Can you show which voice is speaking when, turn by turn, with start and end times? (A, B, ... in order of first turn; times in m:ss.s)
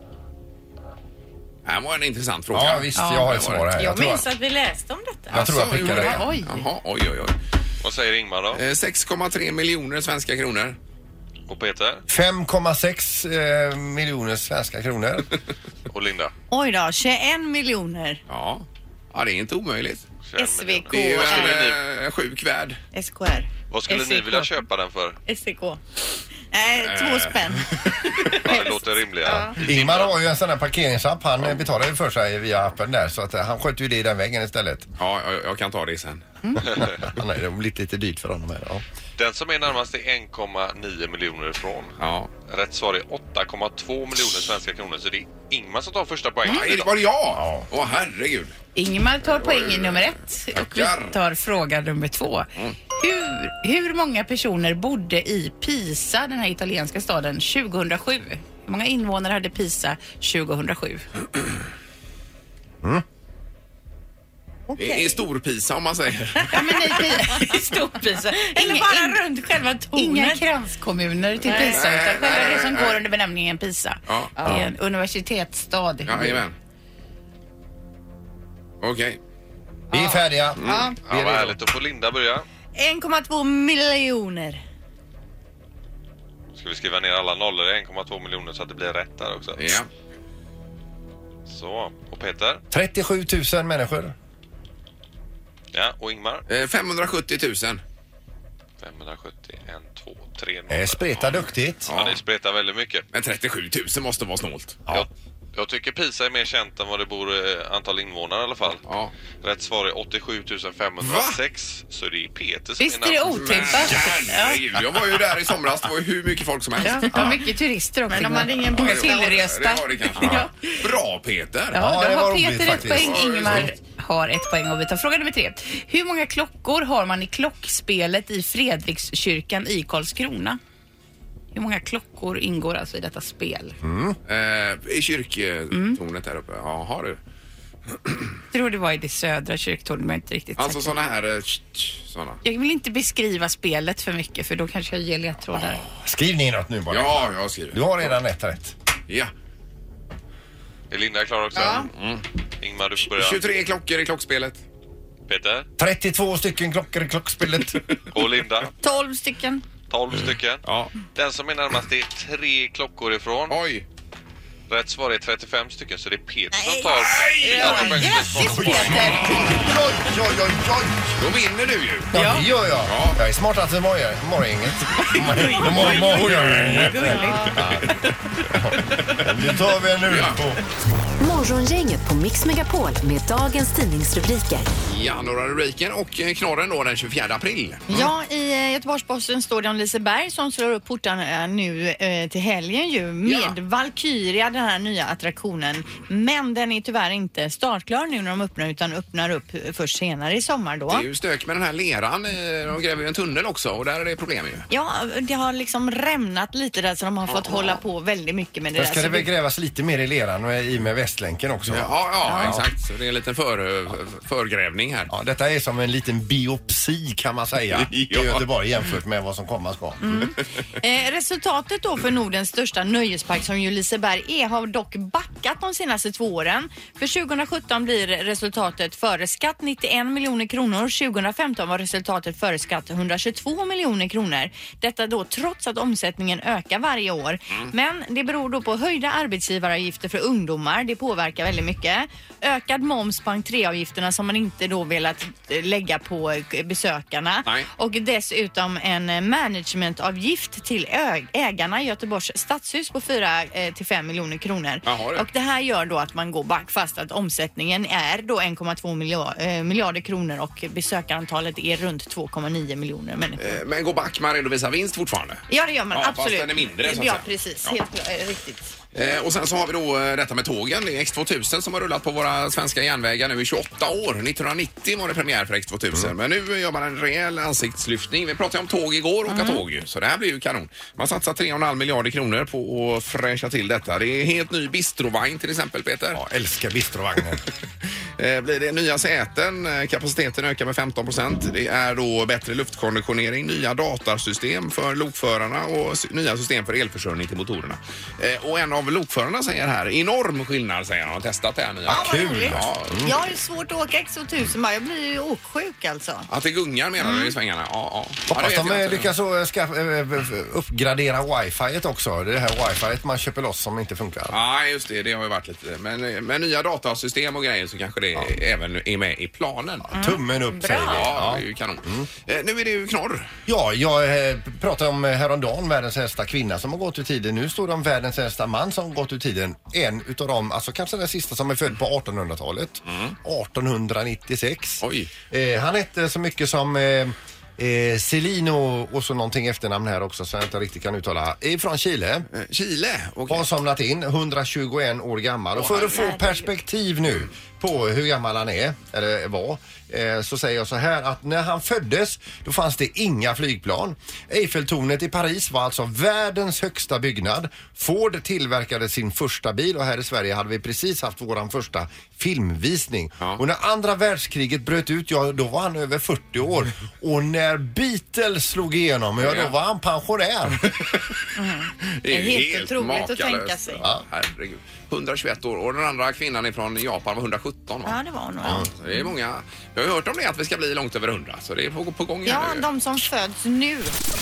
0:01.6-0:03.7 A
0:02.5-0:04.2 B
0:03.0-0:03.3 C
0:03.8-0:05.4 D
0:05.3-0:06.3 B
0:05.3-0:07.4 A
0:05.8-0:06.6 C
0:07.8-0:08.6 E
0:08.5-0:10.8 A
0:11.5-0:12.0 E
0:12.1-0:15.3 B
0:15.9-0:16.3 E
0:16.5-0:18.2 D
0:18.3-0:20.0 A
0:20.2-0:21.8 E
0:20.4-0:21.6 D
0:20.9-0:22.8 A
0:22.9-0:24.6 D
0:23.7-0:25.2 E
0:25.3-0:25.8 D
0:26.4-0:29.6 D
0:26.8-0:28.3 A
0:28.4-0:30.2 E
0:29.5-0:34.9 B
0:35.0-0:36.2 A
0:36.6-0:38.8 B
0:36.6-0:37.0 E
0:39.2-0:46.9 E
0:42.0-0:42.3 A
0:46.5-0:48.6 A
0:47.3-0:47.7 B
0:48.8-1:01.0 C
0:49.2-0:51.2 A
1:04.7-1:05.2 D
1:04.8-1:07.0 A
1:06.4-1:10.4 D
1:06.9-1:09.2 C
1:10.0-1:16.4 C
1:11.4-1:13.0 A
1:11.4-1:11.9 D
1:14.1-1:14.5 A
1:16.0-1:16.6 A
1:18.8-1:19.2 A
1:19.9-1:21.0 D
1:19.9-1:21.6 B
1:20.6-1:20.9 A
1:21.0-1:22.4 E
1:22.8-1:24.6 D
1:26.6-1:29.8 E
1:29.6-1:29.9 A
1:31.5-1:32.6 E
1:32.7-1:34.1 B
1:35.7-1:36.4 E
1:36.5-1:37.8 A
1:38.8-1:41.0 E
1:40.7-1:41.9 B
1:41.2-1:42.2 A
1:41.9-1:43.0 E
1:43.1-1:44.8 A
1:44.9-1:48.8 E
1:48.8-1:49.1 A
1:49.4-1:53.6 E
1:51.0-1:51.4 A
1:52.8-1:54.7 C
1:53.3-1:57.4 A
1:56.8-2:00.5 C
1:58.1-1:59.4 D
1:58.3-2:01.8 A
2:01.7-2:10.6 C
2:01.8-2:03.7 B
2:02.7-2:03.7 A
2:11.5-2:13.8 C
2:13.8-2:14.2 B
2:14.3-2:17.2 A
2:15.7-2:16.0 C
2:18.5-2:21.0 C
2:20.6-2:22.4 A
2:22.4-2:25.8 C
2:25.6-2:25.8 A
2:26.0-2:28.7 B
2:26.9-2:28.1 A
2:30.9-2:31.9 E
2:31.6-2:31.9 D
2:31.6-2:32.2 A
2:32.6-2:33.4 E
2:33.1-2:34.6 A
2:35.3-2:35.7 E
2:35.8-2:37.8 B
2:37.8-2:38.0 A
2:38.1-2:38.7 E
2:38.8-2:39.6 D
2:39.9-2:43.6 E
2:40.6-2:40.9 A
2:43.5-2:43.8 A
2:44.7-2:49.4 E
2:46.5-2:49.6 D
2:46.9-2:49.8 A
2:48.4-2:51.2 B
2:51.2-2:52.2 A
2:52.1-2:58.0 B
2:52.2-2:52.4 D
2:52.8-2:53.2 A
2:55.2-2:57.8 A
2:55.4-2:57.6 D
2:58.5-3:00.6 B
3:00.0-3:00.4 A
3:01.2-3:04.7 F
3:04.9-3:08.1 A
3:07.9-3:21.1 D
3:13.2-3:13.6 A
3:20.9-3:24.7 A
3:24.7-3:29.3 D
3:28.8-3:32.7 B
3:31.7-3:35.1 A
3:32.2-3:32.6 D
3:35.1-3:40.2 B
3:37.7-3:38.4 A
3:40.0-4:23.6 D
4:14.8-4:15.3 A
4:23.4-4:27.8 A
4:25.5-4:28.7 D
4:28.9-4:46.2 A
4:39.3-4:39.6 D
4:46.1-4:47.4 B
4:48.2-5:03.1 A
5:01.9-5:03.2 B
5:01.9-5:06.3 D
5:06.3-5:09.1 A
5:07.0-5:07.3 D
5:08.3-5:14.4 B
5:14.3-5:19.9 A
5:19.9-5:21.1 D
5:19.9-5:22.1 B
5:20.8-5:23.3 A
5:23.5-5:42.3 B
5:32.9-5:33.2 A
5:34.8-5:35.1 A
5:42.3-5:43.5 A
5:43.3-6:10.7 B
5:45.6-5:46.0 A
5:45.9-5:46.5 D
6:09.2-6:09.5 A
6:10.7-6:11.1 A
6:11.4-6:13.8 D
6:12.0-6:18.0 A
6:17.8-6:18.7 D
6:18.4-6:18.7 B
6:18.8-6:22.7 A
6:22.2-6:23.9 D